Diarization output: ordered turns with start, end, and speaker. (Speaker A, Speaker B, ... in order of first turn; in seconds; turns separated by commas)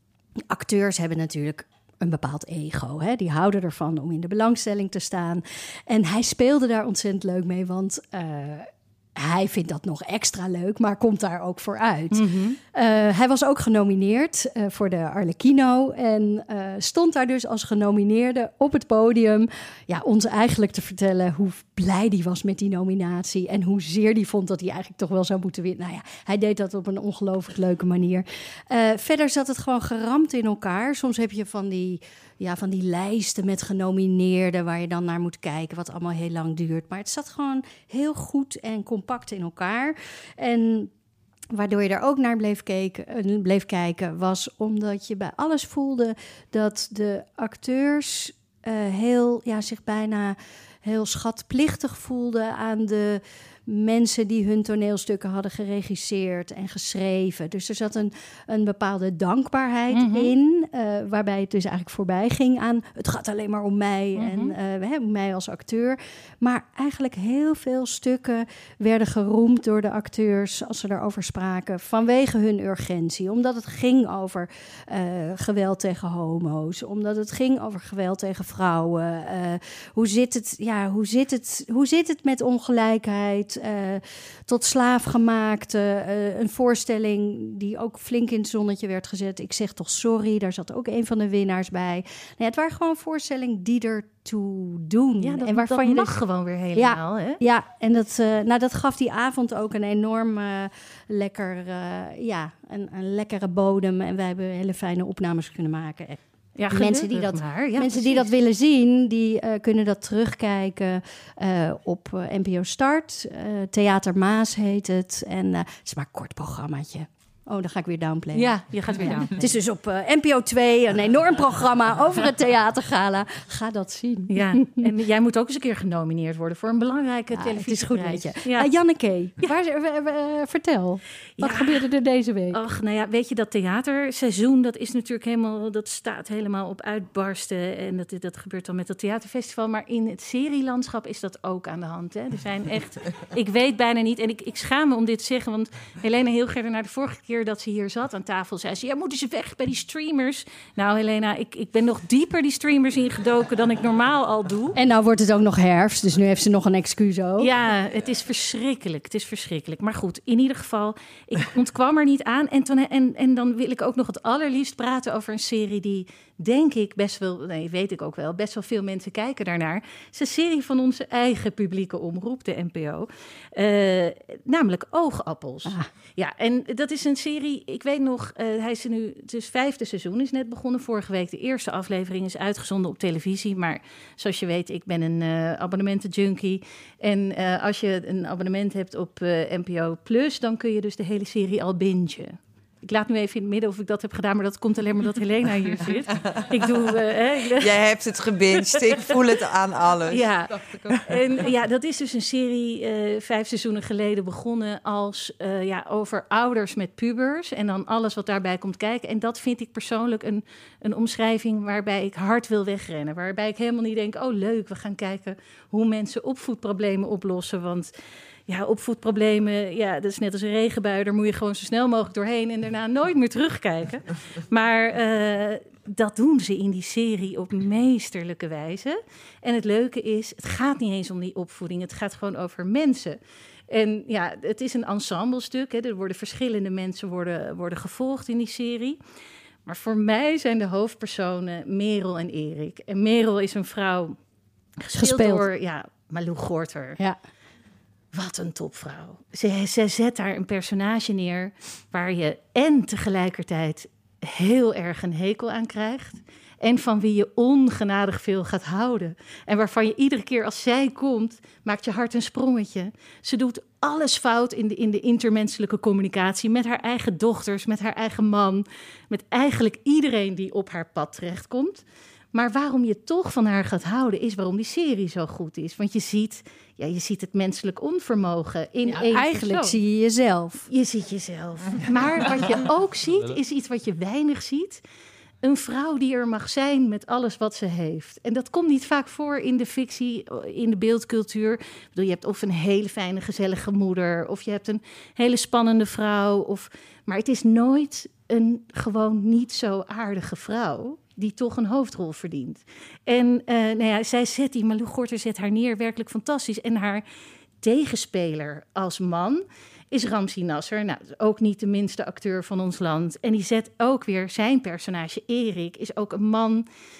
Speaker A: 0.5-40.9, Speaker B: 12.1-12.6, Speaker A: 41.5-96.2, Speaker B: 59.9-60.3, Speaker B: 64.2-64.5, Speaker B: 95.2-97.4, Speaker A: 96.8-124.9, Speaker B: 106.6-108.3, Speaker B: 118.3-119.3, Speaker B: 124.3-128.7, Speaker A: 127.3-132.6, Speaker B: 131.4-131.9, Speaker B: 132.5-154.8, Speaker A: 154.8-157.5, Speaker B: 157.4-197.8, Speaker C: 196.2-196.6, Speaker C: 197.5-201.4, Speaker B: 198.6-199.1, Speaker B: 200.1-217.9, Speaker B: 218.5-233.2, Speaker B: 233.7-239.0, Speaker B: 239.7-244.2, Speaker B: 244.8-247.0, Speaker A: 244.9-245.5, Speaker B: 248.1-279.8, Speaker A: 278.9-280.7, Speaker B: 280.7-284.8, Speaker B: 285.4-307.0, Speaker B: 307.6-316.7